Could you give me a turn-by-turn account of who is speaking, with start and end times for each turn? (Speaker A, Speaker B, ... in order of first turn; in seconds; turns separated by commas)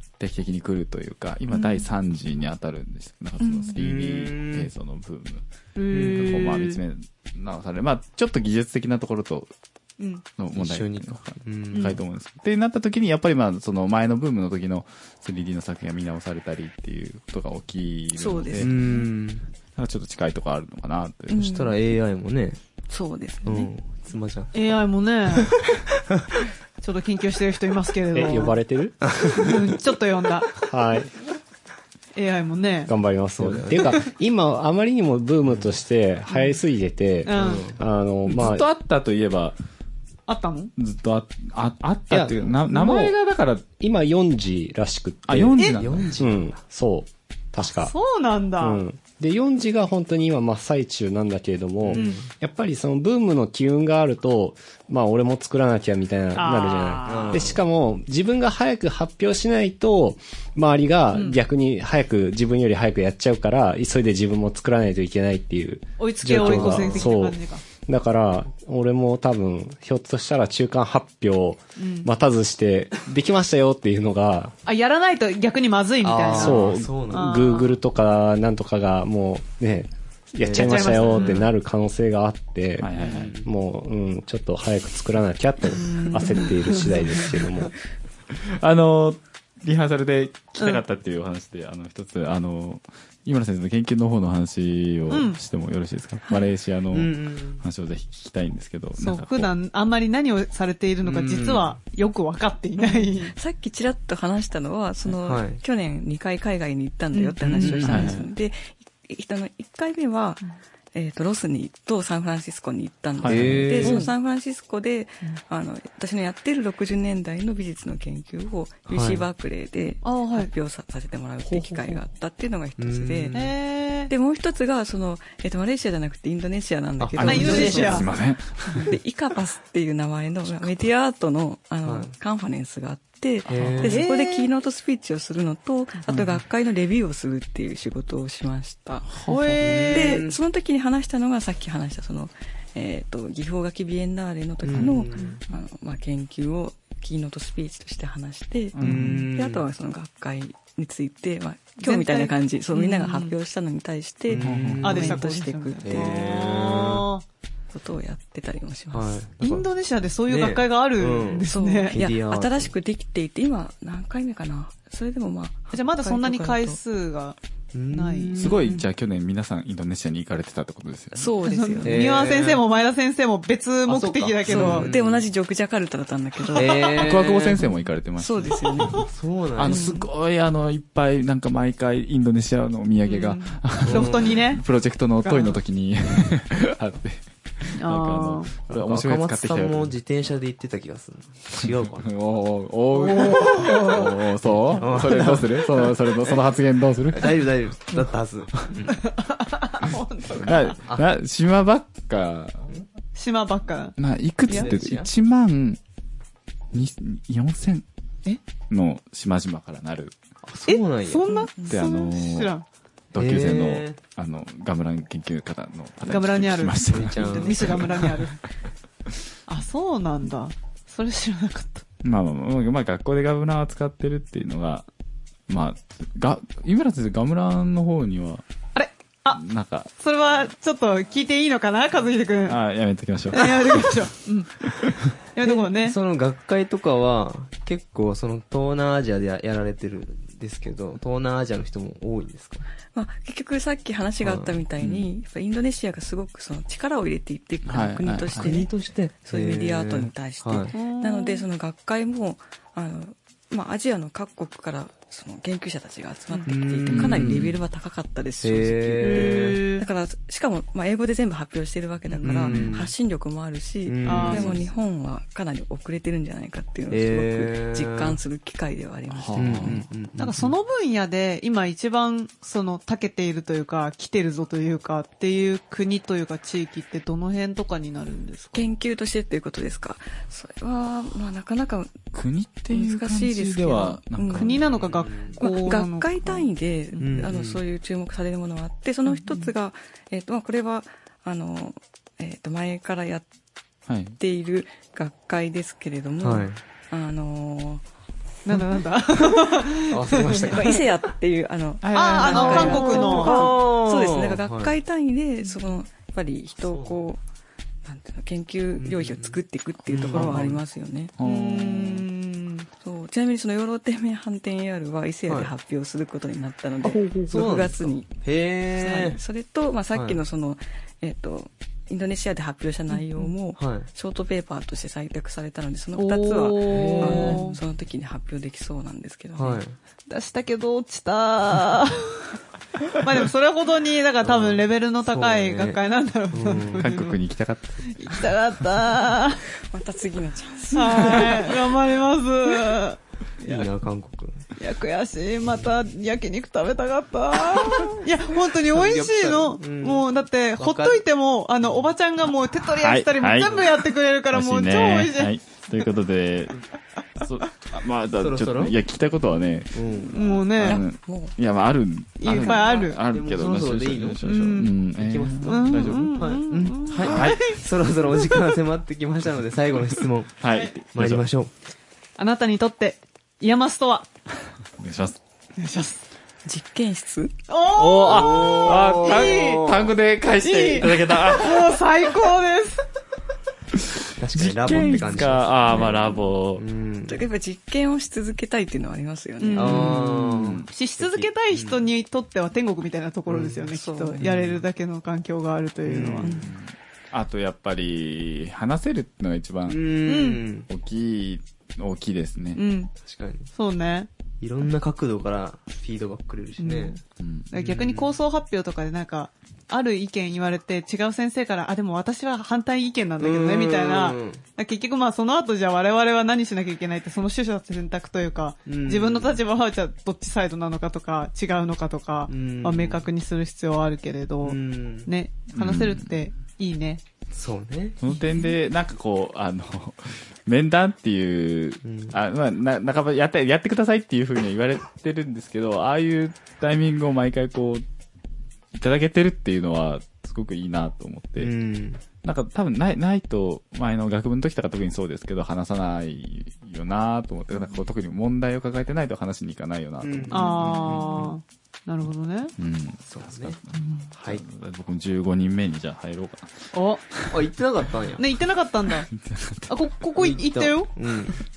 Speaker A: 0.2-9.5, Speaker B: 1.6-1.9, Speaker B: 3.4-3.8, Speaker C: 3.8-4.7, Speaker D: 5.8-6.8, Speaker C: 5.9-6.3, Speaker D: 10.0-10.2, Speaker A: 10.4-19.0, Speaker C: 10.6-12.0, Speaker D: 11.7-12.0, Speaker B: 18.1-18.8, Speaker C: 18.6-19.4, Speaker A: 19.8-21.6, Speaker B: 21.3-21.8, Speaker C: 21.3-22.6, Speaker B: 22.9-23.7, Speaker C: 23.4-24.8, Speaker D: 24.5-25.5, Speaker C: 25.3-26.2, Speaker D: 26.8-28.6, Speaker E: 28.1-29.5, Speaker C: 29.1-29.6, Speaker D: 29.4-30.6, Speaker E: 30.6-31.1, Speaker D: 32.1-32.9, Speaker E: 32.9-38.7, Speaker C: 33.4-34.1, Speaker D: 36.3-36.6, Speaker D: 37.3-37.7, Speaker C: 37.3-37.8, Speaker A: 38.3-39.6, Speaker D: 40.3-40.7, Speaker A: 40.8-43.6, Speaker E: 42.1-43.1, Speaker E: 43.8-47.9, Speaker A: 45.3-46.1, Speaker C: 45.8-46.6, Speaker D: 47.7-48.8, Speaker E: 48.6-74.5, Speaker C: 51.8-52.2, Speaker D: 51.9-52.2, Speaker D: 56.4-57.5, Speaker C: 57.0-57.6, Speaker D: 61.1-61.4, Speaker D: 66.0-67.7, Speaker C: 66.3-67.2, Speaker D: 71.8-72.1, Speaker D: 74.7-77.8, Speaker C: 76.0-77.3, Speaker E: 76.3-87.7, Speaker C: 80.4-81.5, Speaker D: 80.5-81.4, Speaker A: 82.8-83.3, Speaker C: 83.0-83.5, Speaker D: 85.7-87.6, Speaker A: 88.3-99.5, Speaker D: 95.1-95.4, Speaker C: 96.9-97.6, Speaker D: 99.0-103.3, Speaker C: 101.0-101.7, Speaker B: 102.8-110.4, Speaker C: 105.1-105.6, Speaker D: 107.1-108.1, Speaker C: 107.6-108.2, Speaker A: 107.8-108.2, Speaker B: 110.9-123.5, Speaker A: 113.2-114.0, Speaker C: 113.3-114.1, Speaker C: 118.9-119.2, Speaker D: 120.0-120.5, Speaker E: 121.5-122.0, Speaker C: 122.8-123.5, Speaker D: 123.3-124.1, Speaker B: 124.1-128.2, Speaker C: 127.0-128.1, Speaker A: 127.2-128.9, Speaker D: 127.2-128.1, Speaker B: 128.7-139.1, Speaker C: 131.8-132.1, Speaker C: 133.5-134.1, Speaker A: 133.5-133.8, Speaker D: 133.8-134.5, Speaker A: 139.1-139.7, Speaker D: 139.3-140.2, Speaker C: 139.6-140.4, Speaker B: 139.9-156.1, Speaker C: 144.6-145.4, Speaker A: 148.7-149.3, Speaker C: 148.8-149.6, Speaker D: 151.8-153.4, Speaker C: 154.3-155.2, Speaker A: 154.4-155.1, Speaker D: 154.8-157.2, Speaker C: 155.8-157.1, Speaker B: 157.7-159.2, Speaker C: 158.9-159.7, Speaker D: 159.4-162.0, Speaker C: 160.3-162.7, Speaker B: 161.5-166.8, Speaker D: 165.7-167.4, Speaker C: 167.7-168.8, Speaker D: 167.9-168.8, Speaker A: 168.4-171.4, Speaker B: 171.1-172.2, Speaker D: 171.4-174.9, Speaker C: 171.8-172.6, Speaker C: 173.9-175.2, Speaker B: 174.4-177.0, Speaker C: 176.6-177.6, Speaker A: 176.9-179.0, Speaker B: 178.2-179.1, Speaker C: 178.9-179.9, Speaker A: 179.6-189.9, Speaker B: 179.7-180.1, Speaker D: 179.7-180.0, Speaker D: 183.1-184.6, Speaker C: 183.8-184.4, Speaker D: 185.2-185.6, Speaker D: 187.8-188.5, Speaker C: 188.7-192.1, Speaker A: 191.6-197.4, Speaker D: 192.9-194.1, Speaker C: 194.7-196.5, Speaker C: 197.1-199.0, Speaker D: 198.9-200.8, Speaker A: 199.9-202.7, Speaker C: 200.3-201.1, Speaker D: 203.2-204.0, Speaker A: 204.0-205.8, Speaker D: 204.5-204.7, Speaker C: 204.5-205.1, Speaker A: 206.7-207.8, Speaker A: 208.7-210.1, Speaker C: 210.4-211.2, Speaker D: 210.7-212.7, Speaker B: 211.3-211.8, Speaker A: 211.6-212.5, Speaker A: 213.1-218.3, Speaker C: 213.2-214.0, Speaker D: 216.0-218.4, Speaker C: 216.9-217.9, Speaker D: 219.5-221.8, Speaker A: 222.0-224.9, Speaker A: 225.5-228.4, Speaker D: 228.8-229.4, Speaker A: 229.3-229.9, Speaker D: 230.0-232.6, Speaker A: 232.5-234.1, Speaker D: 233.3-236.0, Speaker A: 234.7-235.1, Speaker C: 235.4-242.7, Speaker B: 242.9-269.8, Speaker C: 244.2-244.6, Speaker A: 244.8-245.1, Speaker A: 247.7-248.5, Speaker C: 248.3-250.7, Speaker D: 250.7-251.4, Speaker C: 256.5-257.5, Speaker A: 256.9-257.5, Speaker C: 258.4-259.6, Speaker D: 259.0-259.9, Speaker C: 262.2-262.9, Speaker C: 263.9-264.7, Speaker D: 264.1-264.6, Speaker C: 266.9-268.2, Speaker A: 269.1-269.8, Speaker C: 269.4-270.5, Speaker D: 270.2-278.7, Speaker B: 278.5-282.1, Speaker A: 282.1-284.6, Speaker B: 282.7-284.6, Speaker D: 284.3-287.2, Speaker C: 284.7-285.4, Speaker B: 285.4-293.3, Speaker C: 287.0-287.6, Speaker D: 289.1-289.5, Speaker A: 293.9-294.2, Speaker B: 294.2-297.8, Speaker C: 296.2-296.6, Speaker D: 298.4-300.8, Speaker C: 299.9-300.8, Speaker B: 300.4-307.2, Speaker A: 301.8-303.2, Speaker D: 301.9-303.6, Speaker C: 302.3-304.8, Speaker C: 306.6-307.0, Speaker B: 307.9-311.1, Speaker C: 308.8-310.6, Speaker A: 310.1-310.5, Speaker A: 311.2-311.9, Speaker C: 311.2-312.1, Speaker D: 311.2-312.7, Speaker B: 312.8-318.1, Speaker C: 316.9-319.2, Speaker B: 318.7-329.6, Speaker C: 319.9-320.2, Speaker D: 322.9-323.3, Speaker C: 323.6-323.9, Speaker D: 326.0-327.6, Speaker C: 326.7-327.6, Speaker C: 329.4-329.8, Speaker D: 330.1-332.3, Speaker D: 333.0-337.2, Speaker C: 334.2-335.8, Speaker C: 336.3-336.9, Speaker A: 336.8-338.3, Speaker D: 337.9-339.4, Speaker B: 339.7-341.6, Speaker D: 340.7-343.7, Speaker C: 343.4-344.4, Speaker D: 344.6-355.3, Speaker C: 348.6-350.1, Speaker C: 350.6-351.0, Speaker A: 352.8-353.7, Speaker A: 354.3-356.6, Speaker A: 357.2-367.6, Speaker C: 358.2-358.8, Speaker C: 359.7-360.3, Speaker D: 360.1-360.8, Speaker B: 360.7-361.4, Speaker D: 362.2-363.0, Speaker B: 362.3-362.9, Speaker C: 363.1-364.2, Speaker D: 364.2-364.7, Speaker C: 364.9-370.4, Speaker D: 365.4-368.5, Speaker A: 370.4-371.2, Speaker D: 370.5-370.8, Speaker C: 370.9-371.5, Speaker D: 372.2-374.1, Speaker A: 374.8-375.2, Speaker D: 375.6-376.0, Speaker B: 376.4-377.3, Speaker D: 377.5-379.7, Speaker A: 377.7-381.8, Speaker C: 378.0-379.9, Speaker D: 380.4-382.9, Speaker A: 384.0-386.6, Speaker C: 384.1-387.2, Speaker B: 387.1-390.0, Speaker D: 389.4-390.1, Speaker C: 389.6-391.8, Speaker A: 390.0-390.7, Speaker D: 390.7-396.4, Speaker C: 393.3-393.7, Speaker B: 393.7-394.4, Speaker C: 394.2-394.6, Speaker C: 395.9-396.4, Speaker B: 396.2-396.5, Speaker A: 396.4-399.9, Speaker C: 399.7-400.7, Speaker D: 400.1-400.4, Speaker A: 400.7-402.6, Speaker D: 402.6-402.9, Speaker C: 403.0-403.5, Speaker D: 403.5-404.1, Speaker C: 404.4-407.0, Speaker D: 406.6-407.0, Speaker A: 407.2-407.5, Speaker D: 407.5-427.0, Speaker C: 407.6-408.2, Speaker C: 413.2-414.4, Speaker C: 418.6-419.4, Speaker C: 422.3-423.1, Speaker C: 424.4-425.1, Speaker A: 425.5-426.2, Speaker C: 427.3-428.0, Speaker A: 428.0-437.8, Speaker C: 431.8-432.2, Speaker A: 438.7-441.5, Speaker C: 441.4-442.0, Speaker A: 442.2-451.3, Speaker C: 450.0-450.9, Speaker D: 450.3-452.5, Speaker A: 452.6-457.4, Speaker C: 453.1-453.6, Speaker C: 454.1-454.4, Speaker D: 456.7-457.0, Speaker C: 457.3-458.2, Speaker D: 458.2-459.1, Speaker A: 458.9-459.8, Speaker D: 459.7-460.9, Speaker C: 460.2-461.4